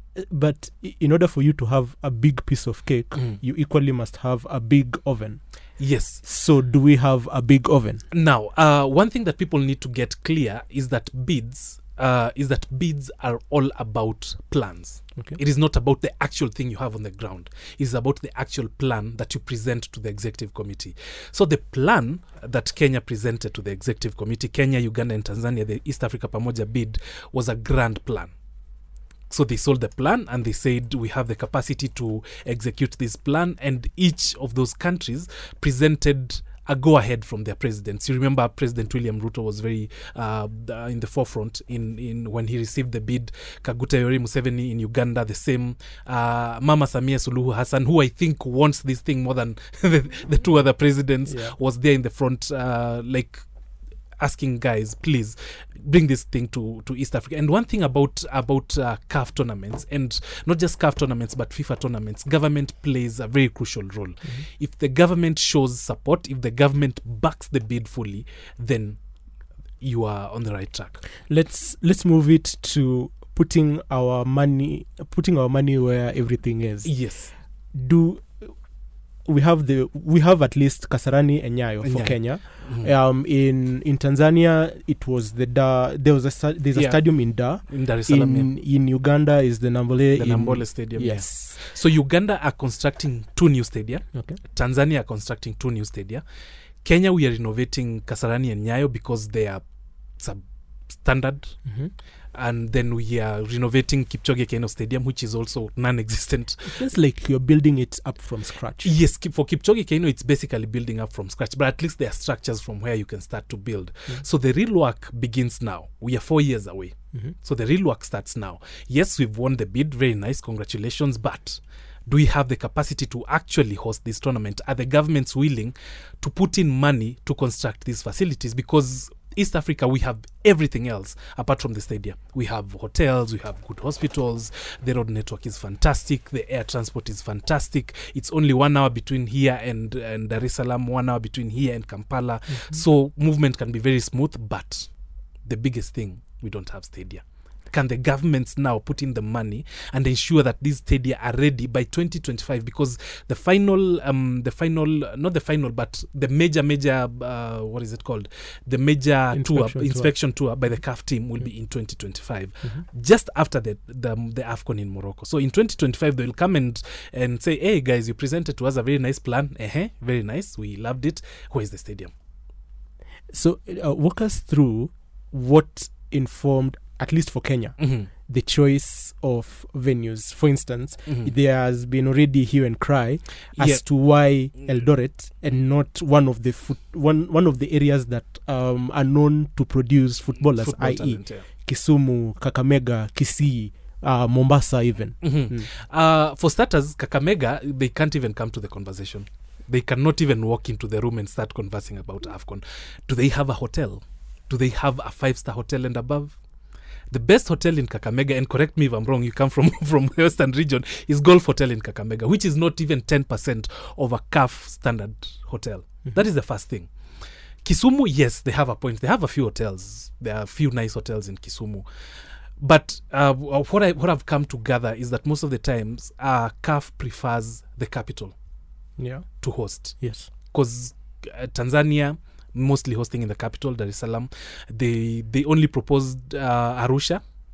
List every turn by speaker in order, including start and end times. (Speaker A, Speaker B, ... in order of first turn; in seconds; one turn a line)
Speaker A: 0.2-8.0
Speaker B: 5.8-6.2
Speaker B: 8.1-28.4
Speaker B: 29.3-53.5
Speaker A: 51.2-51.6
Speaker B: 54.2-69.0
Speaker B: 69.8-71.0
Speaker A: 71.3-78.7
Speaker B: 76.8-77.3
Speaker A: 79.2-91.6
Speaker B: 81.8-82.9
Speaker B: 86.7-88.5
Speaker B: 90.2-96.2
Speaker B: 96.8-106.8
Speaker A: 101.7-101.9
Speaker A: 106.7-108.9
Speaker B: 108.8-172.1
Speaker A: 142.5-142.8
Speaker A: 159.3-160.8
Speaker A: 173.3-195.7
Speaker B: 177.8-178.1
Speaker B: 181.1-181.3
Speaker B: 183.6-183.8
Speaker B: 190.4-191.5
Speaker B: 195.2-206.4
Speaker B: 207.1-221.9
Speaker B: 222.6-228.3
Speaker A: 229.0-230.3
Speaker B: 229.4-237.2